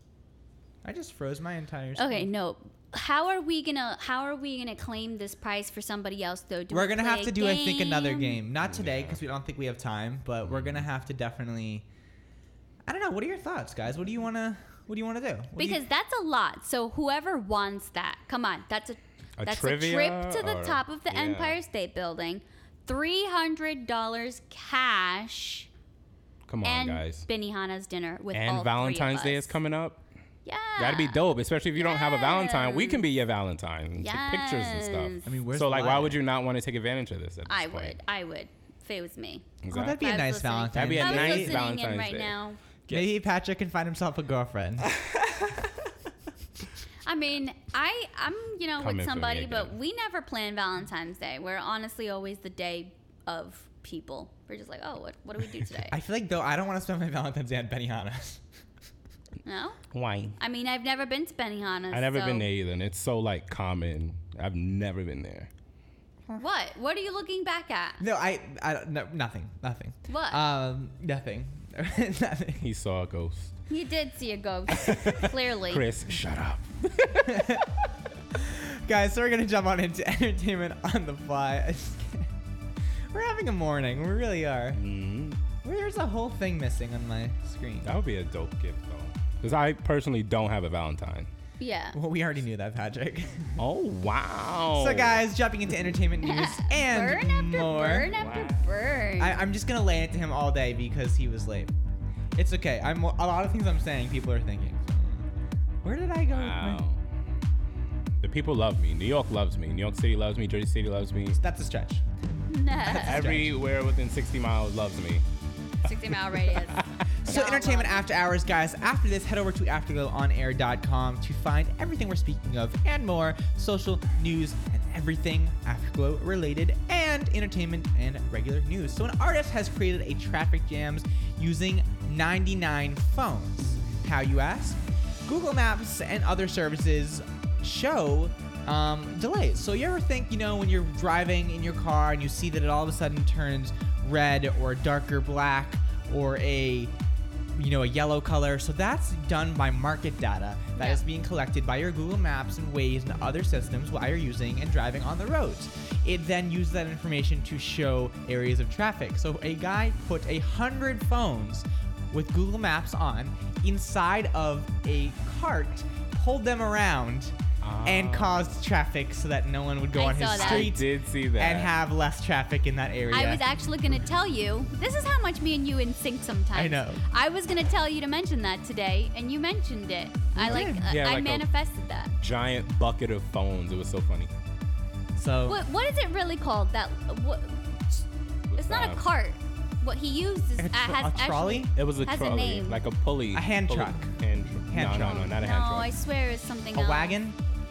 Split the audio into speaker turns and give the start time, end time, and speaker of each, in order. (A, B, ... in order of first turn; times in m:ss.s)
0:00.8-0:02.3 A
0:02.0-0:08.4 B
0:06.7-0:11.8 A
0:08.6-0:09.2 C
0:10.4-0:10.8 C
0:12.8-0:15.8 A
0:15.6-0:25.7 B
0:19.4-0:21.6 C
0:26.5-0:27.2 C
0:26.6-0:29.6 B
0:28.3-0:30.0 C
0:30.4-0:31.2 B
0:30.8-0:38.0 C
0:31.8-0:33.0 B
0:34.0-0:35.2 B
0:35.2-0:36.2 A
0:37.5-0:42.6 B
0:39.6-0:40.0 C
0:39.7-0:41.6 A
0:40.7-0:42.4 C
0:42.9-0:44.9 A
0:47.0-0:55.9 B
0:48.8-0:49.7 C
0:55.9-0:58.4 A
0:59.4-0:59.8 B
0:59.9-1:00.4 C
1:00.4-1:02.5 B
1:01.9-1:05.5 C
1:06.4-1:08.0 B
1:08.0-1:12.6 A
1:10.1-1:10.4 B
1:12.6-1:13.5 C
1:13.7-1:15.8 B
1:14.8-1:17.3 C
1:17.3-1:17.6 A
1:18.3-1:22.3 A
1:23.1-1:24.8 A
1:24.7-1:25.4 C
1:25.6-1:28.0 A
1:27.8-1:31.3 C
1:31.6-1:32.0 B
1:31.9-1:33.5 A
1:33.6-1:35.2 C
1:34.7-1:38.1 A
1:36.2-1:39.4 B
1:38.1-1:38.6 C
1:39.2-1:41.7 A
1:42.3-1:45.3 A
1:45.8-1:46.8 A
1:46.3-1:47.0 C
1:48.2-1:51.4 C
1:51.3-1:52.0 A
1:52.5-1:53.2 B
1:52.8-1:53.5 A
1:53.0-1:55.2 C
1:55.8-1:58.1 B
1:56.1-1:57.0 C
1:57.2-2:26.9 A
2:27.5-2:47.3 A
2:30.8-2:31.0 B
2:47.6-2:48.5 C
2:47.8-2:53.4 A
2:50.0-2:50.8 B
2:50.3-2:51.7 C
2:53.1-3:02.1 B
2:56.5-2:57.0 A
3:00.4-3:00.9 A
3:00.4-3:01.4 C
3:02.2-3:04.3 C
3:05.2-3:05.6 A
3:05.5-3:08.0 B
3:08.5-3:09.0 C
3:08.6-3:12.8 B
3:10.6-3:11.7 A
3:11.7-3:15.9 C
3:13.3-3:14.1 A
3:14.7-3:15.3 A
3:15.0-3:17.2 B
3:16.7-3:17.4 A